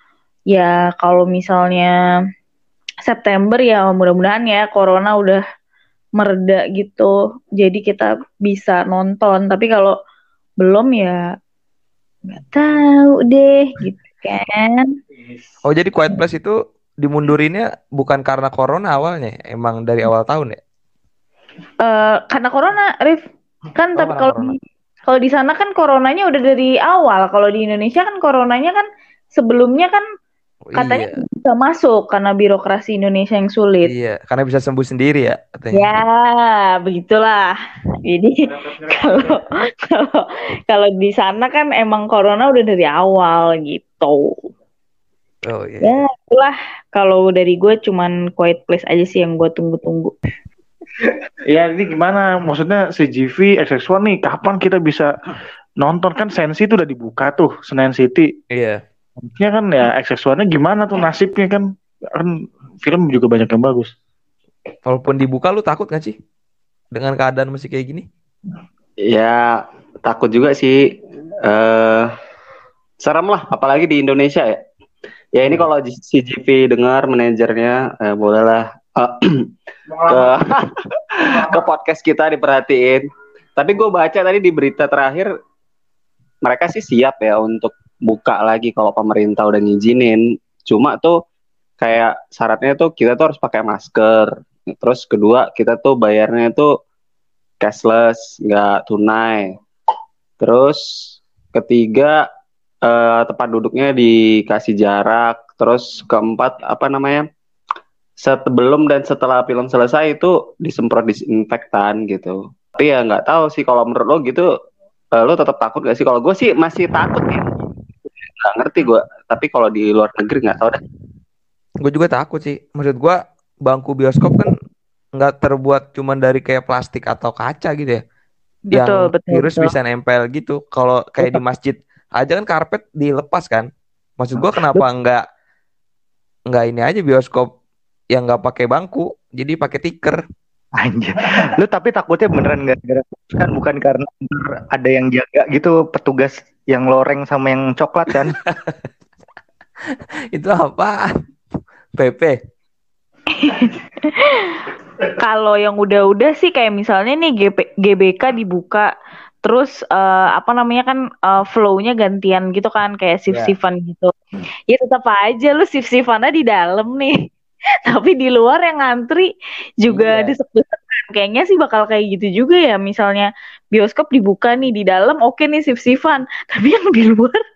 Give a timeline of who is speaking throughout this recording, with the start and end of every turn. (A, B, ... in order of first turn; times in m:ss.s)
0:00.5-0:01.9 A
0:03.0-0:05.4 A
0:06.2-0:09.9 A
0:10.6-0:11.2 A
0:12.3-0:14.9 A
0:15.6-0:20.6 B
0:21.8-0:23.2 A
0:23.7-0:30.0 A
0:23.9-0:24.5 B
0:30.7-0:31.2 B
0:30.8-0:33.9 A
0:33.8-0:35.9 B
0:35.7-0:37.5 A
0:38.0-0:44.4 A
0:38.4-0:39.4 C
0:45.4-0:46.0 B
0:45.8-0:50.1 A
0:51.5-0:55.1 C
0:55.8-0:58.3 C
0:58.5-0:58.8 B
0:59.2-1:01.6 C
1:02.2-1:03.9 C
1:04.8-1:06.2 B
1:06.9-1:08.1 B
1:09.1-1:10.8 D
1:11.4-1:12.1 D
1:13.0-1:14.6 D
1:15.4-1:19.5 D
1:19.9-1:20.3 C
1:20.1-1:23.0 D
1:21.3-1:21.6 C
1:23.6-1:25.3 D
1:26.4-1:31.2 D
1:31.8-1:36.7 D
1:37.6-1:39.6 D
1:40.4-1:40.8 D
1:41.5-1:42.2 D
1:42.8-1:47.2 D
1:48.2-1:54.5 D
1:55.1-1:57.6 D
1:58.4-2:00.8 D
2:01.8-2:04.6 B
2:05.2-2:08.0 B
2:08.7-2:09.7 A
2:08.7-2:15.2 B
2:14.4-2:14.8 E
2:16.5-2:17.5 B
2:18.1-2:20.2 B
2:20.8-2:28.4 E
2:28.1-2:28.8 B
2:30.3-2:31.1 B
2:32.0-2:32.4 B
2:33.4-2:34.6 A
2:35.2-2:38.9 A
2:39.4-2:44.2 A
2:44.7-2:47.2 A
2:47.8-2:49.3 A
2:49.8-2:57.4 A
2:49.9-2:50.4 B